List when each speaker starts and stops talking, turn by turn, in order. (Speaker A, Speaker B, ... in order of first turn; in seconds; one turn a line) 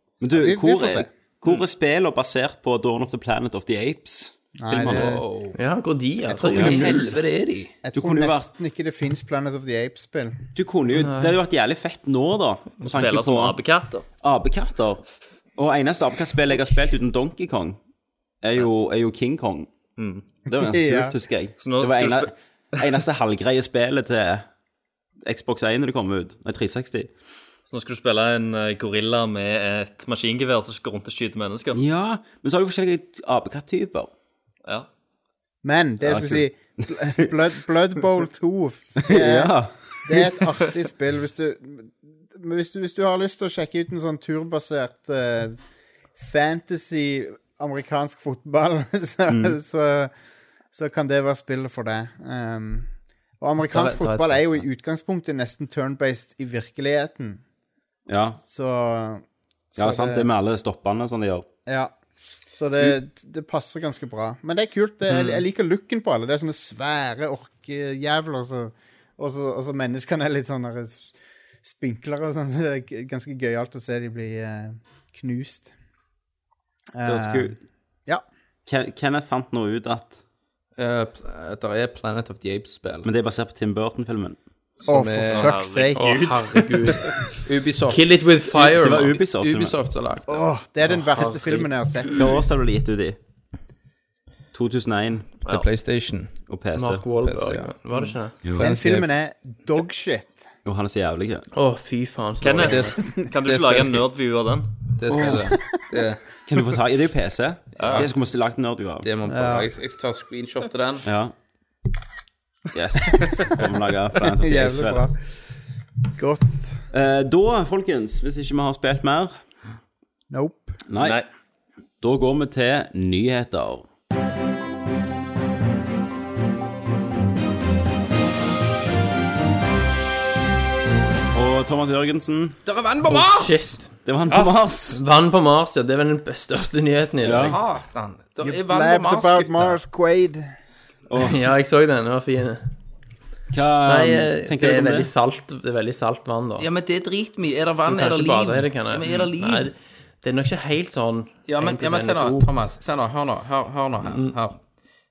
Speaker A: 0.2-5.2
Speaker B: 0.3-1.1
Speaker B: 4.6-5.2
Speaker C: 4.8-5.6
Speaker D: 5.5-7.2
Speaker C: 6.5-7.8
Speaker A: 6.5-7.1
Speaker B: 7.8-10.4
Speaker A: 7.9-8.5
Speaker A: 10.6-13.6
Speaker D: 11.0-11.4
Speaker E: 12.8-14.1
Speaker A: 14.2-17.8
Speaker A: 18.4-19.7
Speaker E: 20.0-20.2
Speaker A: 20.5-24.5
Speaker B: 20.6-21.1
Speaker E: 21.6-22.8
Speaker A: 25.2-27.1
Speaker E: 27.7-31.8
Speaker A: 31.7-34.1
Speaker B: 35.6-45.6
Speaker A: 36.0-37.3
Speaker A: 39.0-40.4
Speaker B: 46.2-50.1
Speaker A: 49.3-49.5
Speaker B: 50.7-57.4
Speaker D: 53.7-54.6
Speaker A: 58.1-58.4
Speaker B: 58.4-60.3
Speaker A: 59.8-61.5
Speaker B: 61.7-61.9
Speaker B: 62.5-75.7
Speaker B: 77.0-78.2
Speaker A: 77.0-77.6
Speaker A: 78.7-80.2
Speaker C: 80.8-83.1
Speaker A: 83.0-84.4
Speaker C: 84.8-85.5
Speaker B: 84.9-86.3
Speaker E: 85.3-87.1
Speaker D: 86.0-87.1
Speaker C: 87.4-88.2
Speaker D: 87.9-89.2
Speaker A: 88.6-89.8
Speaker C: 88.7-90.4
Speaker B: 90.3-92.4
Speaker D: 91.1-91.7
Speaker A: 92.1-93.2
Speaker A: 94.5-95.4
Speaker C: 95.5-96.4
Speaker A: 96.5-97.1
Speaker D: 96.8-98.4
Speaker C: 97.2-97.7
Speaker C: 98.6-99.1
Speaker B: 98.6-100.5
Speaker A: 100.7-101.5
Speaker D: 101.5-103.0
Speaker E: 102.4-104.7
Speaker C: 102.6-104.0
Speaker C: 105.0-106.3
Speaker A: 105.1-105.5
Speaker A: 106.5-109.1
Speaker C: 107.8-108.1
Speaker C: 109.0-111.1
Speaker B: 109.3-109.7
Speaker A: 111.0-111.3
Speaker A: 112.7-115.0
Speaker B: 114.3-115.2
Speaker B: 116.2-116.8
Speaker A: 116.9-119.4
Speaker B: 120.3-120.8
Speaker A: 120.9-121.2
Speaker E: 121.0-121.2
Speaker A: 122.0-123.9
Speaker A: 131.3-132.6
Speaker C: 132.7-133.8
Speaker D: 133.1-137.6
Speaker A: 134.1-135.0
Speaker A: 137.2-137.6
Speaker C: 137.2-139.8
Speaker B: 138.4-140.5
Speaker A: 141.1-141.4
Speaker D: 141.2-142.7
Speaker A: 143.5-145.1
Speaker D: 143.8-146.7
Speaker C: 146.6-149.7
Speaker D: 147.8-152.5
Speaker C: 151.5-154.6